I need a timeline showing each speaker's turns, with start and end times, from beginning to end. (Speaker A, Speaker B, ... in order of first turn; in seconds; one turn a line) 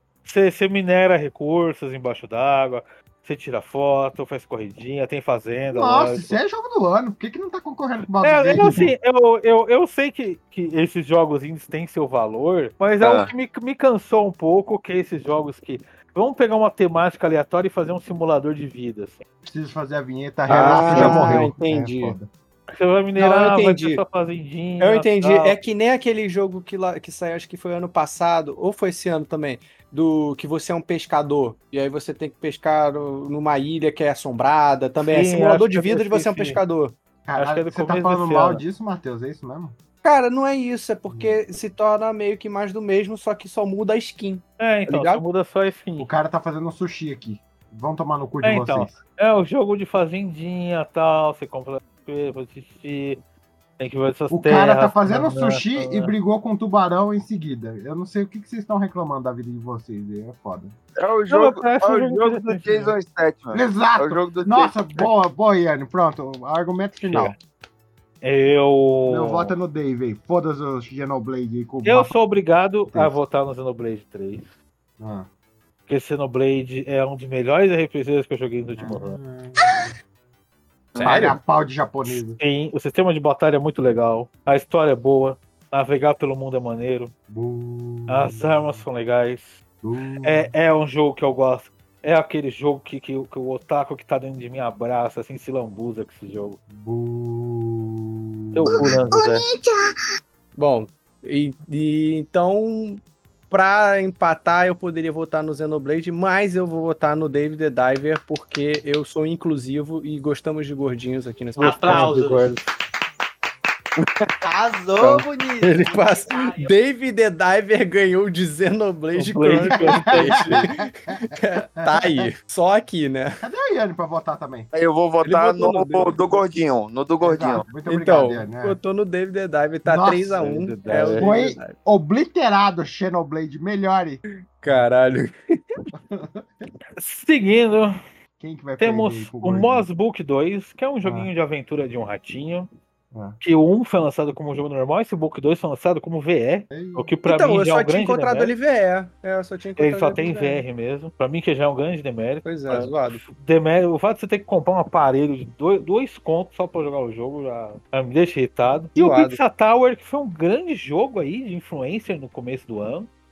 Speaker A: 0.2-6.4
Speaker B: 5.7-8.9
Speaker A: 8.2-19.2
Speaker C: 13.0-13.3
Speaker B: 19.4-22.3
Speaker D: 20.5-22.1
Speaker A: 20.5-21.4
Speaker A: 22.7-25.6
Speaker D: 23.2-24.0
Speaker D: 24.8-37.0
Speaker A: 35.0-36.6
Speaker B: 37.2-39.7
Speaker A: 37.4-38.6
Speaker D: 40.0-45.2
Speaker B: 41.1-41.4
Speaker A: 44.6-46.1
Speaker B: 46.0-49.0
Speaker A: 48.4-53.2
Speaker A: 53.8-56.1
Speaker B: 54.3-60.7
Speaker C: 61.0-65.1
Speaker A: 61.3-62.9
Speaker B: 63.5-67.3
Speaker A: 67.0-67.3
Speaker A: 68.2-69.5
Speaker B: 69.1-72.2
Speaker A: 71.8-74.5
Speaker B: 72.9-73.2
Speaker B: 75.0-75.3
Speaker A: 75.9-79.2
Speaker B: 78.8-79.9
Speaker D: 81.0-81.3
Speaker B: 81.0-82.4
Speaker A: 82.0-87.1
Speaker B: 87.3-88.8
Speaker A: 88.1-89.6
Speaker B: 89.8-90.5
Speaker A: 90.2-96.6
Speaker B: 96.7-99.0
Speaker A: 98.5-99.4
Speaker D: 100.5-112.4
Speaker A: 111.6-112.6
Speaker B: 111.9-112.2
Speaker C: 114.4-115.8
Speaker D: 115.0-123.4
Speaker A: 119.1-120.7
Speaker B: 119.9-120.2
Speaker B: 121.8-122.3
Speaker B: 123.4-124.7
Speaker C: 124.7-127.7
Speaker D: 125.2-126.1
Speaker B: 125.6-126.1
Speaker B: 127.2-128.8
Speaker D: 127.8-131.8
Speaker B: 129.8-134.8
Speaker A: 130.4-131.3
Speaker D: 134.6-135.6
Speaker B: 135.9-136.4
Speaker A: 137.0-137.9
Speaker B: 138.4-139.8
Speaker A: 138.8-142.7
Speaker B: 141.0-141.3
Speaker B: 143.1-143.4
Speaker A: 143.4-148.5
Speaker B: 146.7-147.0
Speaker D: 147.3-150.6
Speaker A: 149.8-163.1
Speaker D: 152.4-153.2
Speaker D: 158.9-159.4